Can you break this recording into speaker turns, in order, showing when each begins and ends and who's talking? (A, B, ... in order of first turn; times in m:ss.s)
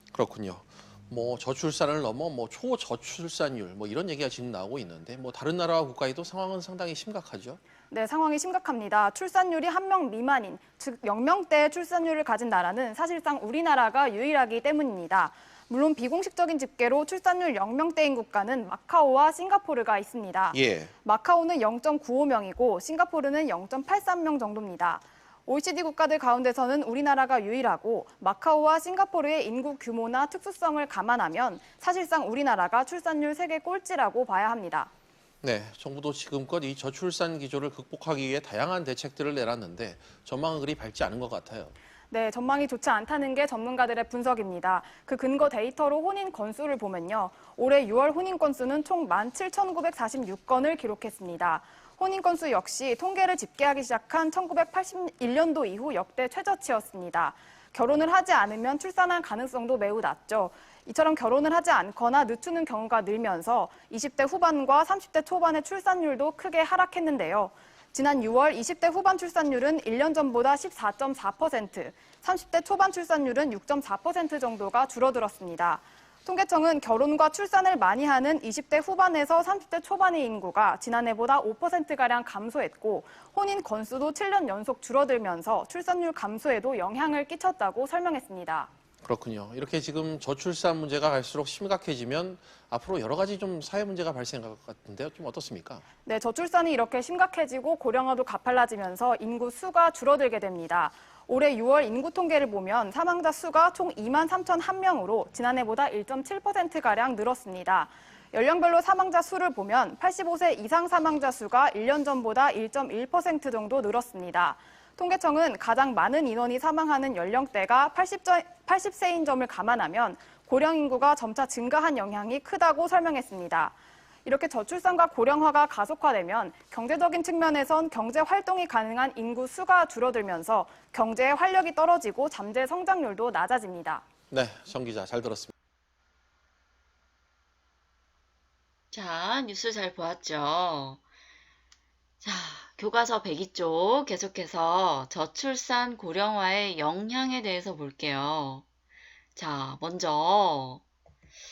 0:00.1-0:07.6 A
0:07.9-0:34.9 B
0:20.5-0:20.9 A
0:35.4-0:41.8 A
0:42.1-1:28.7 B
1:29.0-1:35.8 A
1:36.1-2:14.0 B
2:14.3-2:15.5 A
2:18.9-2:21.0 C
2:22.2-2:28.6 C
2:29.4-2:30.8 C